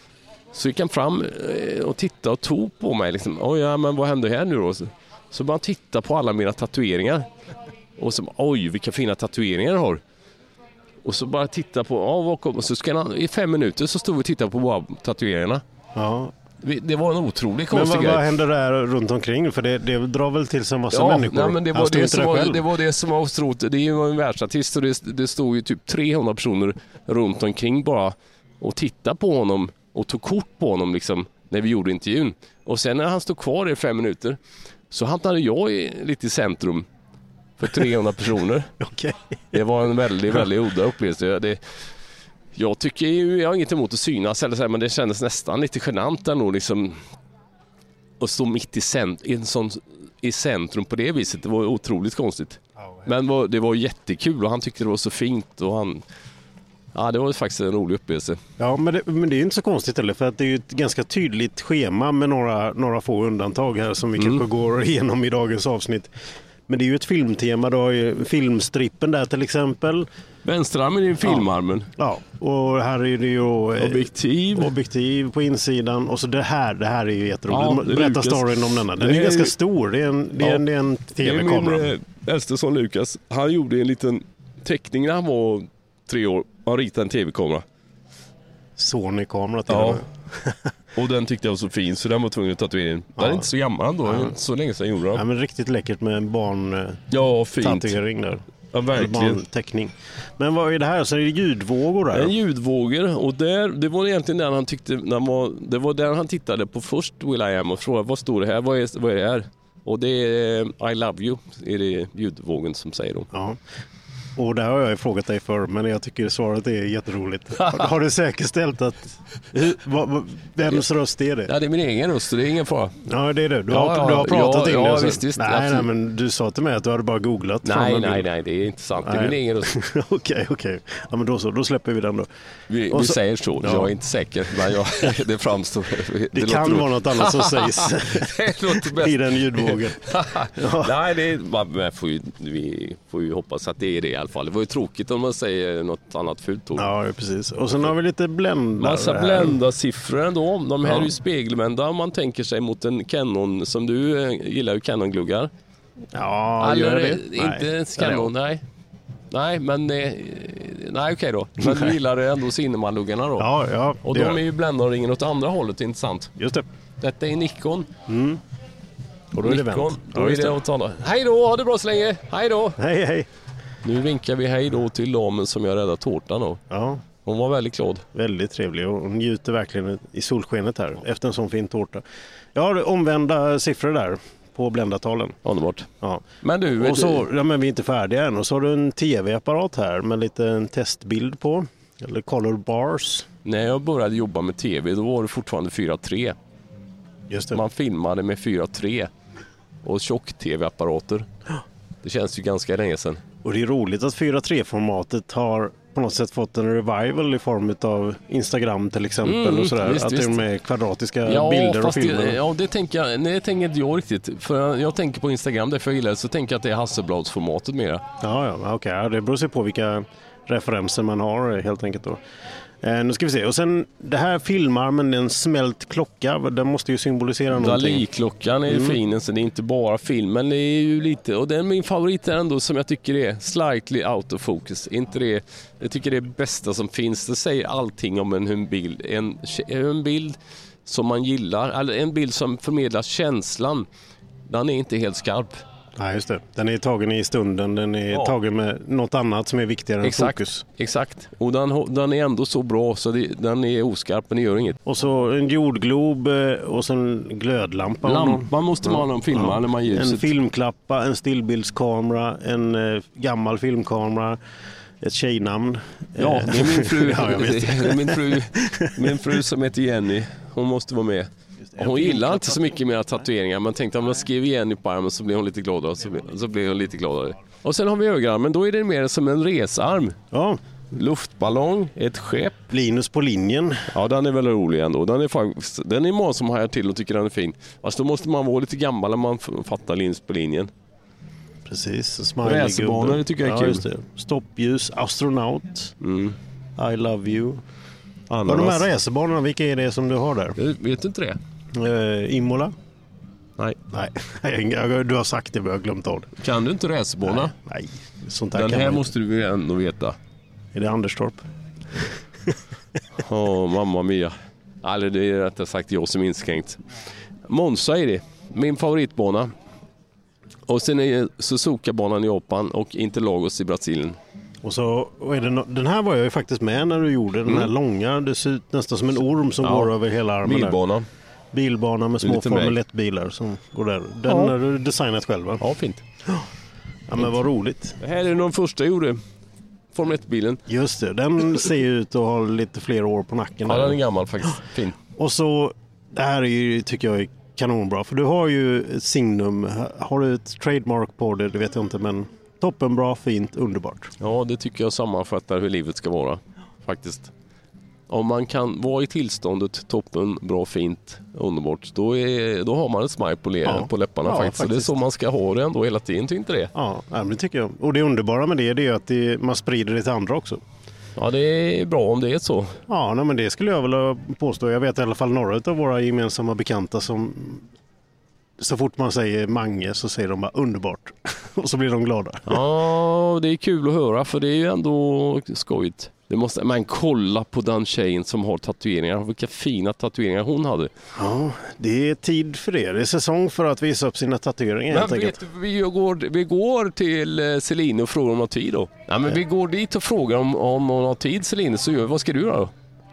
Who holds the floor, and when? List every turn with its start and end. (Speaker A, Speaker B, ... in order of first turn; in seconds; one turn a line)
Speaker A: 0.5-7.3
Speaker A: 8.0-10.0
Speaker A: 11.0-15.6
Speaker B: 15.9-16.3
Speaker A: 16.6-18.3
Speaker B: 17.7-22.6
Speaker A: 20.9-34.4
Speaker A: 34.9-36.9
Speaker A: 37.6-38.7
Speaker B: 38.8-39.5
Speaker A: 39.5-41.6
Speaker A: 42.5-47.0
Speaker A: 48.2-56.0
Speaker B: 52.8-53.1
Speaker A: 56.9-58.4
Speaker B: 58.6-66.1
Speaker A: 64.2-64.4
Speaker B: 66.7-70.1
Speaker A: 70.4-71.9
Speaker B: 72.0-81.9
Speaker A: 73.8-74.7
Speaker A: 77.5-79.5
Speaker A: 81.2-87.7
Speaker B: 88.8-90.6
Speaker A: 89.7-90.0
Speaker A: 91.0-95.2
Speaker B: 93.2-93.5
Speaker B: 94.1-94.3
Speaker B: 95.1-97.0
Speaker A: 97.1-98.0
Speaker B: 97.6-102.3
Speaker A: 98.7-99.4
Speaker A: 102.1-113.3
Speaker B: 113.3-113.6
Speaker B: 114.4-121.5
Speaker A: 117.6-117.9
Speaker A: 121.5-123.0
Speaker B: 123.0-128.3
Speaker A: 123.7-125.9
Speaker A: 127.6-129.7
Speaker B: 129.0-132.3
Speaker A: 132.7-146.9
Speaker B: 132.9-133.9
Speaker B: 136.3-140.0
Speaker B: 140.5-140.9
Speaker B: 146.8-149.6
Speaker A: 148.8-155.5
Speaker B: 156.1-158.3
Speaker A: 156.6-158.6
Speaker A: 159.3-163.5
Speaker B: 163.4-164.4
Speaker A: 164.0-166.3
Speaker B: 166.4-166.7
Speaker A: 167.0-167.9
Speaker B: 168.1-168.4
Speaker B: 169.3-170.6
Speaker A: 169.4-172.8
Speaker B: 172.8-173.3
Speaker A: 173.8-176.6
Speaker B: 176.7-177.0
Speaker A: 177.2-178.1
Speaker B: 178.1-182.0
Speaker B: 182.6-185.4
Speaker A: 185.4-185.9
Speaker A: 186.4-187.3
Speaker B: 186.8-193.3
Speaker A: 193.4-196.4
Speaker B: 197.3-197.6
Speaker A: 197.5-199.1
Speaker A: 199.8-201.3
Speaker A: 202.0-203.2
Speaker B: 203.4-212.4
Speaker A: 209.2-210.4
Speaker A: 211.2-218.0
Speaker B: 218.2-222.2
Speaker B: 222.8-228.0
Speaker A: 227.5-243.9
Speaker B: 228.7-229.0
Speaker A: 244.5-245.6
Speaker B: 246.0-250.6
Speaker A: 250.0-254.8
Speaker B: 254.8-264.4
Speaker A: 258.0-260.3
Speaker B: 265.0-269.2
Speaker A: 266.2-280.2
Speaker B: 271.7-272.7
Speaker B: 280.3-280.6
Speaker A: 280.9-282.6
Speaker B: 282.7-283.9
Speaker A: 283.9-290.7
Speaker B: 291.7-295.9
Speaker A: 292.4-293.8
Speaker A: 296.0-296.4
Speaker B: 296.8-297.6
Speaker A: 298.3-298.9
Speaker B: 298.5-300.6
Speaker A: 300.6-301.4
Speaker B: 301.7-302.7
Speaker B: 303.9-306.4
Speaker A: 306.4-307.5
Speaker B: 307.3-309.1
Speaker A: 308.6-310.2
Speaker B: 310.8-311.4
Speaker A: 313.2-316.8
Speaker A: 317.5-319.5
Speaker A: 320.7-324.2
Speaker B: 324.6-330.8
Speaker A: 329.6-331.1
Speaker B: 331.5-335.6
Speaker A: 332.2-332.8
Speaker A: 334.3-334.5
Speaker A: 335.6-336.0
Speaker B: 337.1-338.0
Speaker A: 338.0-339.2
Speaker A: 339.9-340.6
Speaker B: 340.7-344.0
Speaker A: 343.7-345.0
Speaker B: 345.1-354.1
Speaker A: 354.2-357.3
Speaker A: 358.1-366.7
Speaker B: 363.6-364.9
Speaker B: 366.7-370.6
Speaker A: 371.2-372.8
Speaker B: 372.9-377.7
Speaker B: 378.6-382.6
Speaker A: 382.5-390.9
Speaker B: 391.1-395.4
Speaker A: 394.9-402.7